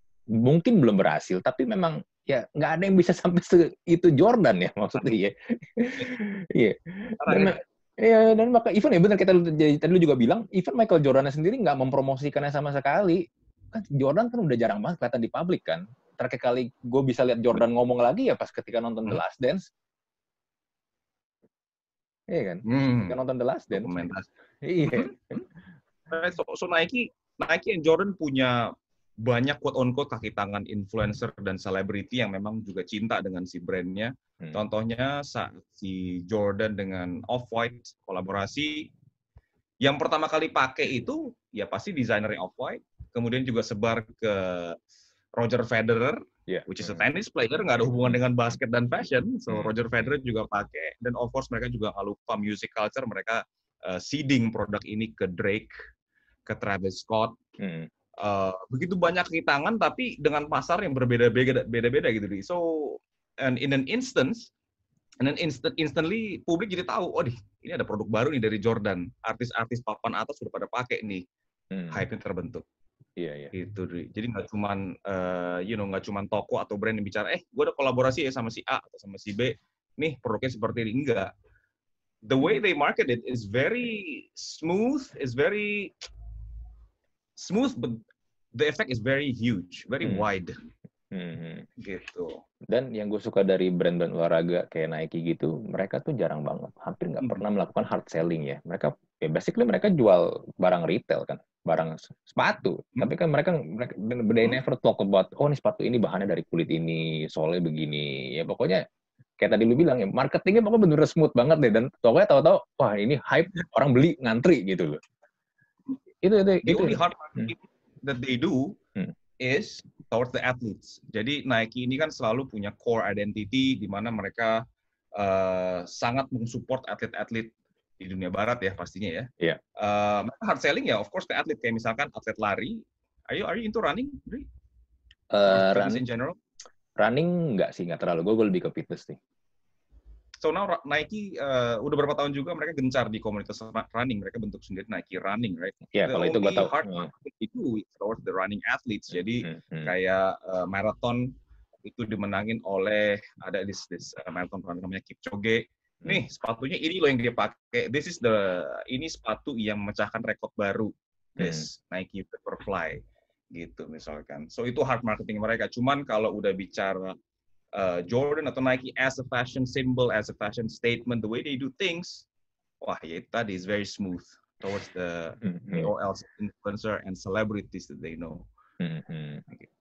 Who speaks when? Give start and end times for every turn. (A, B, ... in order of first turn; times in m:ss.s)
0:00.4-0:19.7 A
0:07.2-0:07.6 B
0:22.3-0:24.0 A
0:22.7-0:23.2 B
0:23.7-0:24.3 B
0:24.6-0:25.5 A
0:26.1-0:38.9 B
0:39.8-0:44.8 B
0:45.4-0:55.7 B
0:46.5-0:47.1 A
0:56.5-0:57.4 B
0:57.6-0:57.9 A
0:58.2-1:04.5 B
1:05.2-1:11.2 B
1:11.7-1:12.0 A
1:11.9-1:12.6 B
1:13.2-1:13.5 A
1:13.5-1:21.3 B
1:22.2-1:25.9 B
1:27.4-1:28.0 B
1:28.6-1:30.6 B
1:31.1-1:31.7 A
1:31.8-1:32.4 B
1:32.7-1:48.8 A
1:49.4-1:55.0 A
1:56.2-1:57.5 A
1:56.6-1:58.8 B
1:59.4-2:04.6 B
2:05.2-2:14.5 B
2:15.3-2:16.0 A
2:15.5-2:16.4 B
2:17.0-2:19.2 A
2:20.4-2:31.3 B
2:25.9-2:27.1 A
2:29.4-2:29.9 A
2:31.8-2:43.0 B
2:41.4-2:41.7 A
2:43.6-2:47.2 B
2:47.7-2:52.3 B
2:52.8-2:58.4 B
2:55.4-2:55.9 A
2:58.8-2:59.5 A